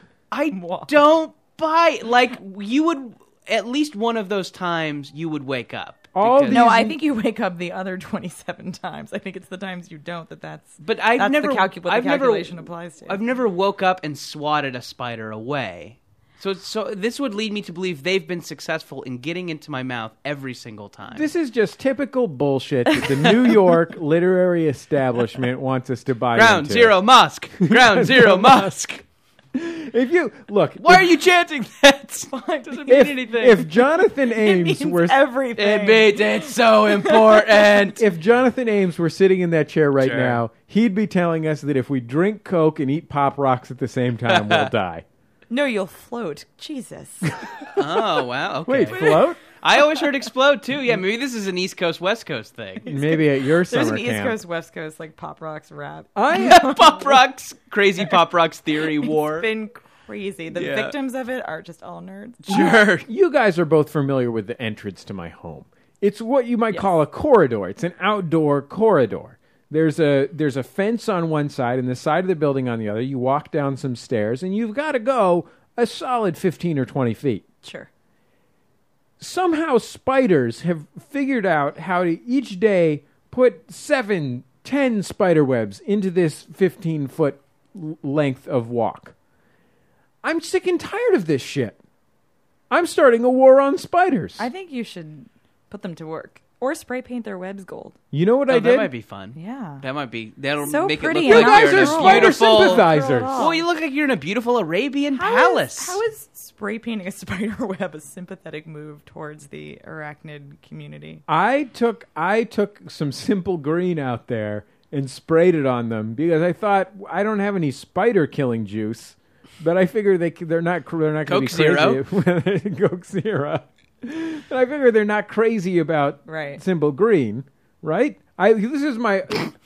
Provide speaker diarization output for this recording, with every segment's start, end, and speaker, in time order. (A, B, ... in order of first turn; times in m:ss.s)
0:00.3-0:06.7 A
0:00.5-0:00.9 B
0:06.2-0:07.0 C
0:06.5-0:13.2 B
0:10.8-0:21.3 A
0:21.1-0:27.0 C
0:26.3-0:29.0 A
0:27.6-0:28.7 C
0:29.5-0:31.1 C
0:30.8-0:33.7 A
0:32.3-0:33.6 B
0:32.9-0:35.2 C
0:34.2-0:37.9 B
0:35.6-0:38.0 A
0:38.0-0:45.0 C
0:40.0-0:40.4 A
0:44.3-0:44.7 A
0:45.5-0:47.4 B
0:47.4-0:47.8 C
0:47.7-0:52.9 A
0:48.7-0:49.4 C
0:48.9-0:49.2 B
0:52.8-0:57.2 B
0:52.8-0:54.4 C
0:56.2-0:56.8 C
0:56.3-0:59.5 A
0:59.0-1:02.8 B
1:00.5-1:00.9 A
1:02.5-1:03.1 A
1:03.1-1:17.4 C
1:17.6-1:17.9 B
1:19.2-1:29.2 C
1:30.2-1:31.8 C
1:32.7-1:34.5 C
1:34.4-1:38.0 B
1:38.1-1:38.9 C
1:38.5-1:46.0 A
1:39.4-1:39.8 B
1:40.6-1:43.6 B
1:41.2-1:43.4 C
1:45.2-1:51.2 B
1:51.3-2:09.5 C
2:01.3-2:02.0 A
2:06.3-2:06.6 B